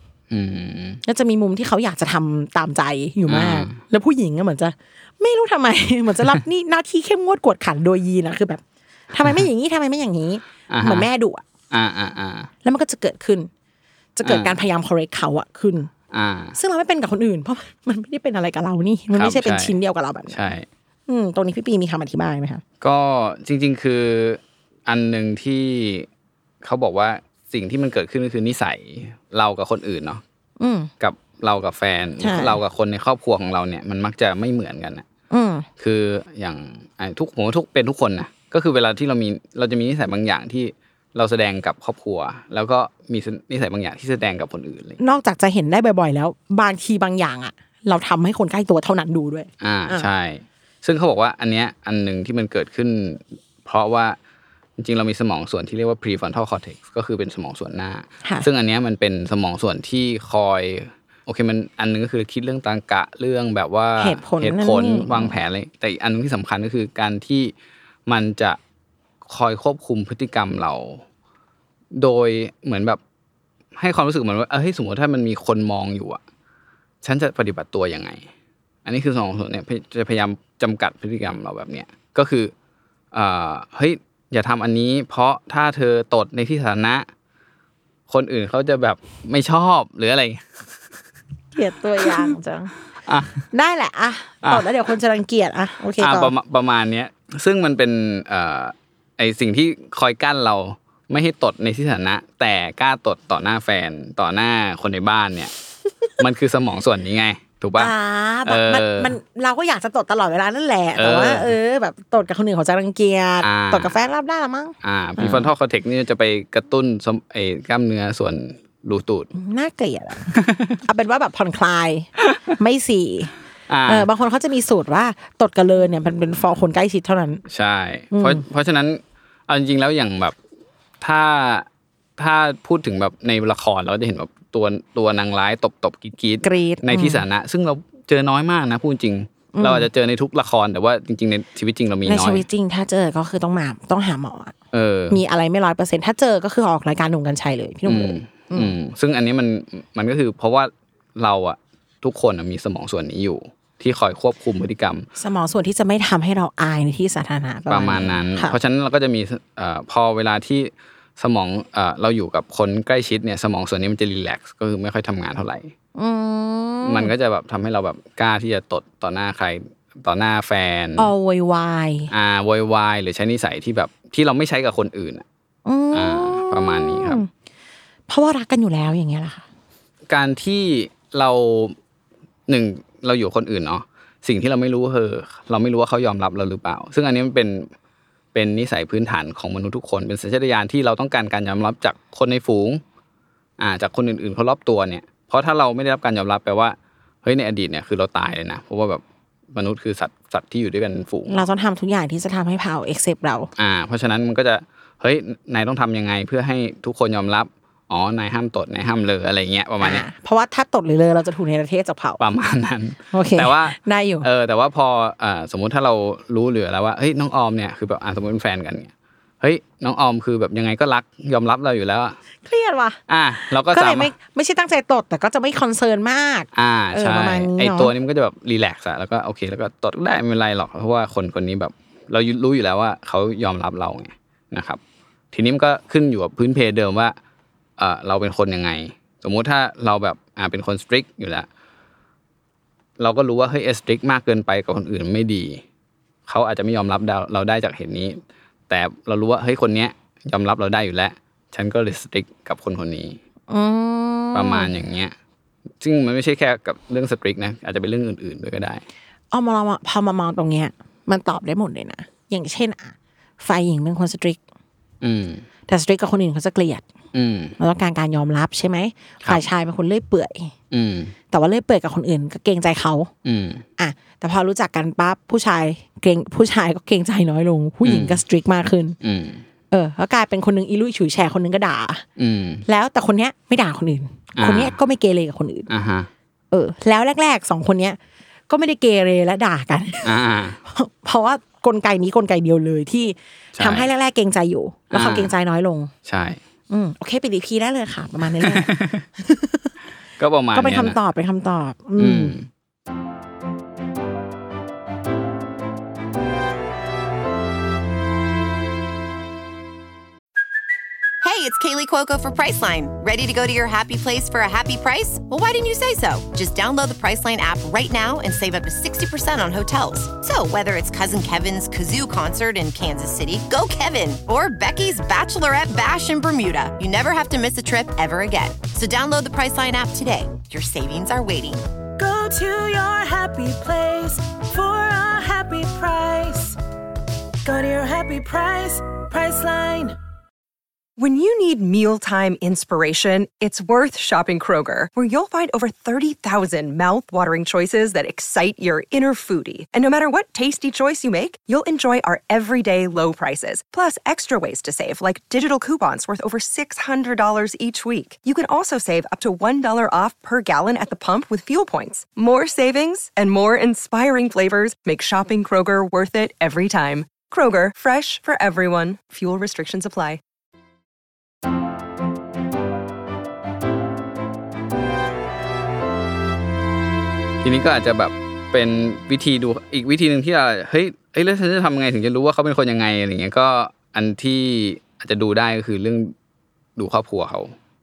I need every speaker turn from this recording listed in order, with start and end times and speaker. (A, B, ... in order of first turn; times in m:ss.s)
0:00.3-0:01.0 A
0:01.0-0:11.4 B
0:03.3-0:03.8 A
0:10.7-0:11.1 A
0:11.7-0:12.5 A
0:12.6-0:13.5 B
0:14.2-0:15.9 B
0:14.2-0:14.6 A
0:16.1-0:16.6 A
0:16.6-0:20.4 B
0:19.1-0:19.8 A
0:20.3-0:20.7 A
0:21.1-0:22.6 B
0:22.8-0:26.1 A
0:26.6-0:30.2 A
0:30.6-0:30.9 B
0:31.0-0:35.0 A
0:32.2-0:32.6 B
0:35.3-0:35.7 B
0:35.8-0:45.0 A
0:45.0-0:50.1 B
0:49.6-0:54.2 A
0:54.8-1:07.5 A
1:04.0-1:05.4 B
1:08.1-1:08.6 A
1:09.3-1:11.0 A
1:11.9-1:13.0 A
1:13.8-1:16.2 A
1:17.0-1:18.2 A
1:18.8-1:22.5 A
1:23.1-1:27.1 A
1:28.1-1:30.8 A
1:31.6-1:32.7 B
1:32.0-1:32.3 A
1:33.1-1:33.4 A
1:33.5-1:36.3 B
1:36.0-1:45.5 A
1:46.2-1:47.9 A
1:47.8-1:55.5 B
1:48.5-1:49.1 A
1:51.0-1:51.6 A
1:53.4-1:53.9 A
1:54.8-1:59.3 A
1:59.3-2:03.3 B
2:00.3-2:00.8 A
2:03.7-2:04.1 A
2:03.9-2:07.4 B
2:07.5-2:10.4 A
2:08.1-2:08.4 B
2:11.0-2:11.7 A
2:12.2-2:22.4 A
2:16.4-2:17.2 B
2:19.5-2:19.9 B
2:22.1-2:24.5 B
2:24.7-2:25.2 A
2:25.1-2:28.7 B
2:27.9-2:35.1 A
2:35.2-2:38.6 B
2:37.7-2:45.7 A
2:46.0-2:47.1 B
2:46.8-2:51.1 A
2:51.0-2:52.1 B
2:52.1-2:55.2 A
2:55.7-2:57.3 B
2:55.9-2:57.2 A
2:58.1-2:59.4 B
3:00.1-3:01.8 A
3:02.5-3:07.7 A
3:08.3-3:12.8 A
3:13.6-3:19.0 A
3:19.5-3:21.4 A
3:21.3-3:23.5 B
3:23.6-3:30.0 A
3:29.8-3:32.2 B
3:32.2-3:42.2 A
3:33.1-3:34.3 B
3:42.4-3:47.9 B
3:43.1-3:44.1 A
3:46.6-3:54.8 A
3:55.3-3:57.2 A
3:57.8-4:01.5 A
4:03.0-4:05.6 A
4:06.3-4:13.2 A
4:13.5-4:14.7 B
4:14.3-4:15.1 A
4:15.8-4:18.8 A
4:19.3-4:24.4 B
4:25.0-4:25.4 A
4:25.7-4:26.8 B
4:27.1-4:27.6 A
4:27.6-4:30.5 B
4:30.7-4:31.2 A
4:31.3-4:33.1 B
4:33.2-4:33.6 A
4:33.8-4:39.0 B
4:37.8-4:38.2 A
4:39.0-4:39.4 A
4:39.7-4:42.0 B
4:42.2-4:42.6 A
4:42.7-4:45.7 B
4:44.4-4:44.8 A
4:45.7-4:46.1 A
4:46.5-4:48.0 B
4:48.5-4:50.1 B
4:50.0-4:50.6 A
4:50.7-4:55.9 B
4:53.6-4:53.9 A
4:54.9-4:55.3 A
4:56.1-4:56.4 A
4:56.7-4:59.7 B
4:58.4-4:59.1 A
5:00.2-5:01.0 A
5:00.5-5:02.4 B
5:02.0-5:02.5 A
5:11.2-5:31.6 C
5:32.0-5:36.5 D
5:37.4-5:39.9 D
5:41.0-6:10.2 E
6:17.4-6:26.1 A
6:26.8-6:27.6 A